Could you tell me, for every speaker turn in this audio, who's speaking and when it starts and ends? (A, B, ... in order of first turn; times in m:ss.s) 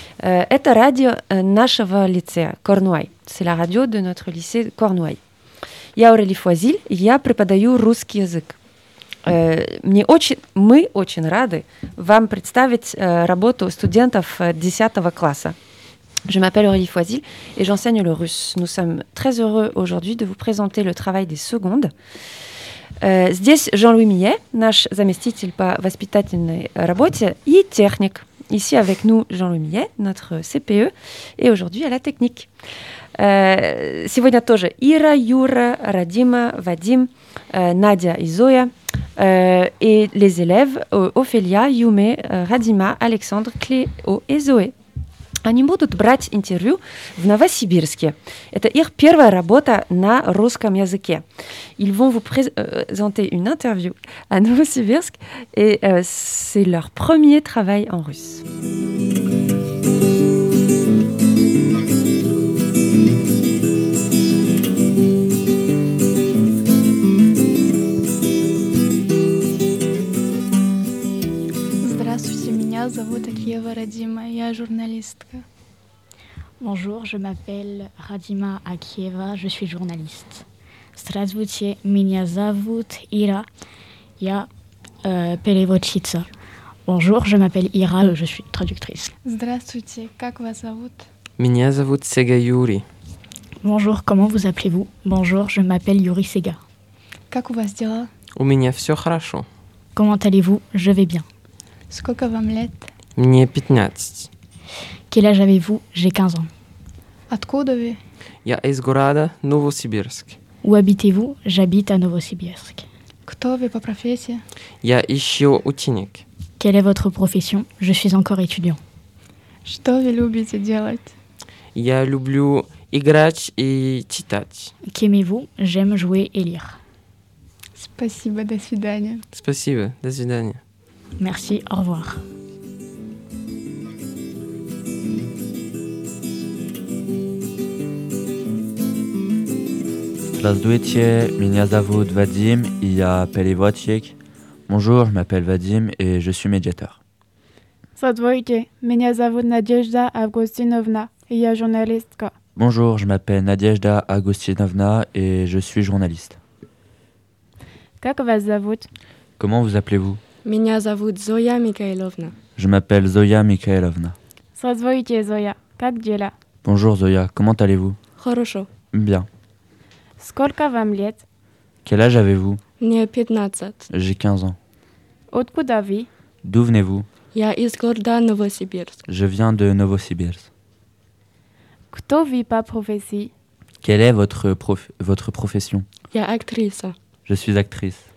0:00.2-0:05.2 A
0:06.0-0:08.6 A
0:09.2-0:15.6 A
0:16.3-0:21.9 A
0:23.0-0:32.5 A
0:33.2-0:44.7 A
0:45.4-0:51.2 A
0:51.8-0:58.4 A
1:11.8-1:15.4 B
1:16.6-1:23.5 C
1:24.2-1:24.5 C
1:25.0-1:26.3 C
1:26.8-1:29.1 C
1:29.2-1:31.1 B
1:31.4-1:32.8 D
1:33.6-1:36.6 C
1:37.3-1:38.1 B
1:38.4-1:39.5 D
1:39.9-1:41.2 C
1:41.9-1:42.9 B
1:43.2-1:44.3 D
1:45.1-1:46.5 C
1:47.3-1:48.0 B
1:48.4-1:50.4 D
1:50.6-1:52.9 C
1:53.2-1:54.4 B
1:54.8-1:56.2 D
1:56.6-1:58.8 C
1:59.6-2:01.1 B
2:01.7-2:04.7 D
2:04.9-2:06.8 C
2:07.7-2:09.2 B
2:09.3-2:10.6 D
2:11.2-2:12.2 C
2:20.3-2:24.2 E
2:24.7-2:27.0 E
2:28.0-2:32.3 F
2:32.6-2:36.4 E
2:38.0-2:38.9 F
2:39.4-2:40.2 E
2:40.4-2:42.3 G
2:42.6-2:44.2 E
2:44.6-2:46.3 F
2:46.6-2:48.0 E
2:48.2-2:48.7 G
2:48.9-2:49.3 E
2:50.2-2:51.2 F
2:51.8-2:52.6 E
2:52.8-2:53.9 G
2:53.9-2:54.6 E
2:55.3-2:56.1 F
2:56.4-2:57.1 E
2:57.3-2:59.0 G
2:59.1-3:00.5 E
3:01.9-3:03.3 F
3:03.8-3:05.8 E
3:06.1-3:06.9 G
3:07.2-3:08.1 E